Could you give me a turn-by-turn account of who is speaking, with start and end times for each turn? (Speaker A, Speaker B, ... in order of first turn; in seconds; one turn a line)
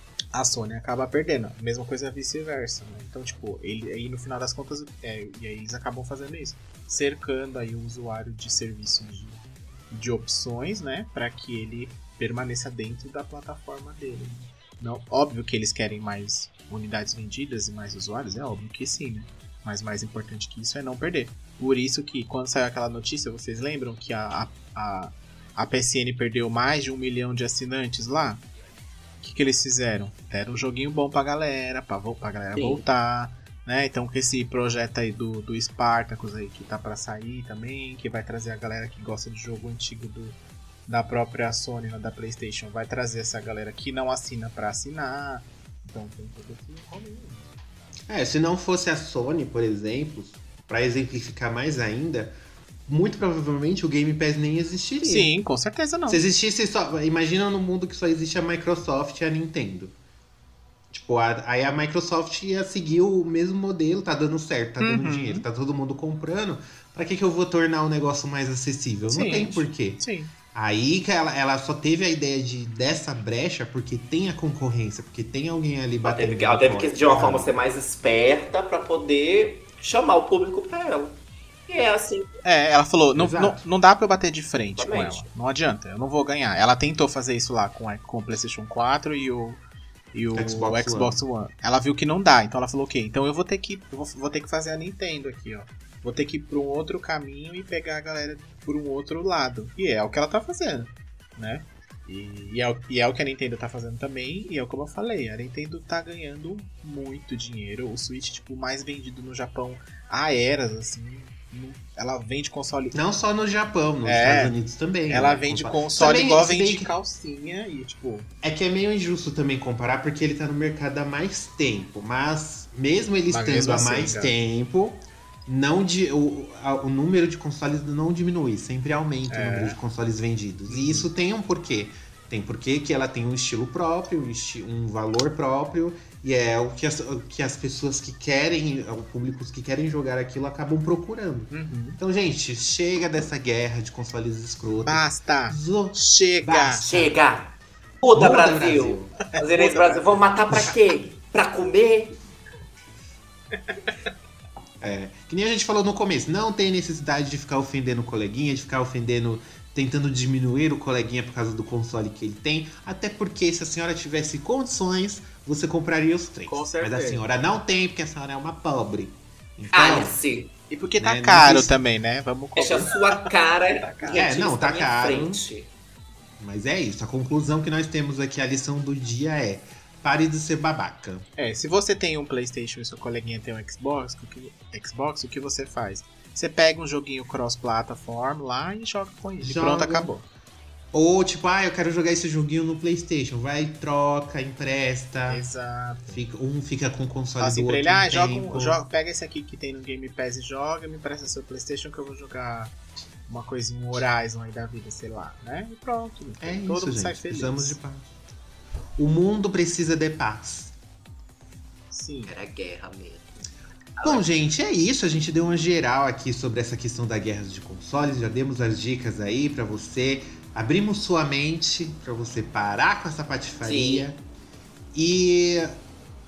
Speaker A: 0.3-28.4
Speaker A: 29.2-47.5
Speaker B: 32.5-32.9
Speaker C: 48.1-52.3
Speaker C: 52.9-55.3
Speaker A: 55.0-56.2
Speaker C: 56.1-59.9
Speaker C: 60.9-77.5
Speaker A: 64.8-65.5
Speaker A: 69.1-70.3
Speaker B: 76.0-82.3
Speaker A: 82.4-89.6
Speaker C: 83.1-83.6
Speaker B: 84.8-85.3
Speaker A: 90.1-113.0
Speaker C: 90.3-91.2
Speaker C: 112.9-116.9
Speaker A: 114.0-114.5
Speaker A: 115.1-118.3
Speaker C: 118.4-147.2
Speaker A: 123.3-124.3
Speaker A: 129.3-129.8
Speaker A: 130.7-131.1
Speaker A: 141.5-142.0
Speaker A: 144.8-146.8
Speaker B: 146.8-152.2
Speaker C: 148.1-149.2
Speaker A: 149.3-150.0
Speaker C: 154.8-170.2
Speaker A: 166.4-167.2
Speaker B: 169.7-170.5
Speaker A: 170.7-174.2
Speaker C: 171.0-171.8
Speaker B: 172.6-175.7
Speaker C: 174.1-175.4
Speaker C: 176.4-181.2
Speaker A: 181.4-190.2
Speaker C: 189.4-190.1
Speaker C: 190.9-195.4
Speaker A: 195.2-196.2
Speaker C: 196.1-198.8
Speaker A: 197.4-202.8
Speaker A: 203.3-207.8
Speaker C: 206.4-208.1
Speaker C: 209.0-210.7
Speaker A: 211.9-212.3
Speaker B: 212.2-213.4
Speaker B: 214.0-214.3
Speaker C: 214.0-224.2
Speaker B: 223.6-224.1
Speaker C: 224.9-225.8